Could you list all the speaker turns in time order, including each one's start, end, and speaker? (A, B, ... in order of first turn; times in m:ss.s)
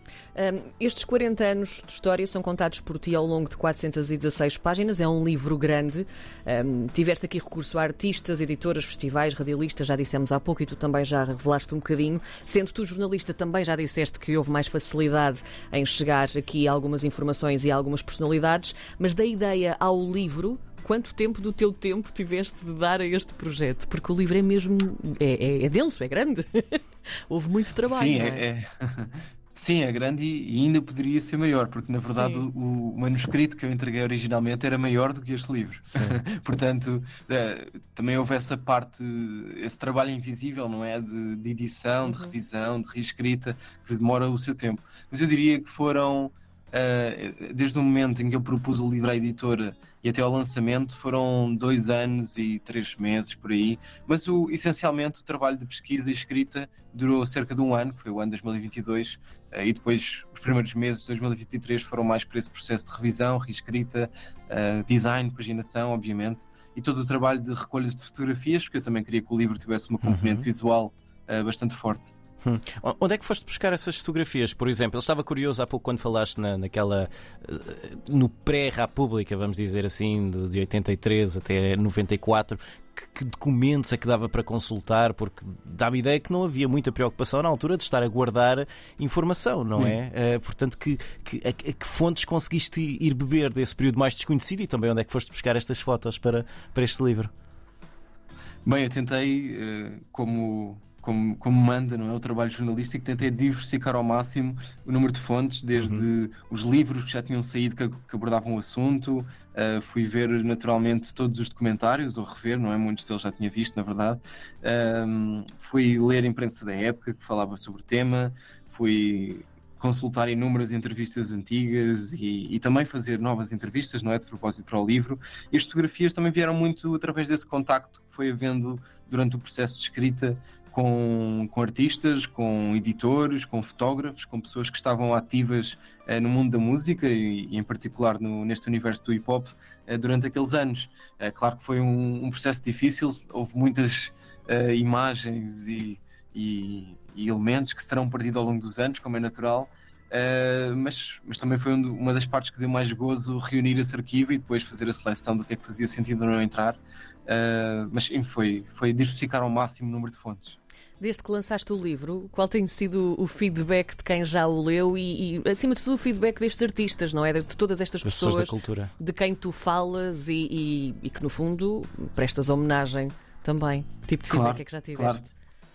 0:00.4-0:28.4 A
0:27.9-1:12.1 B
0:32.1-0:32.5 A
0:42.0-0:42.4 A
1:12.5-1:37.3 C
1:38.6-2:40.6 B
2:41.0-2:55.3 A
2:48.1-2:48.9 C
2:54.3-2:55.2 B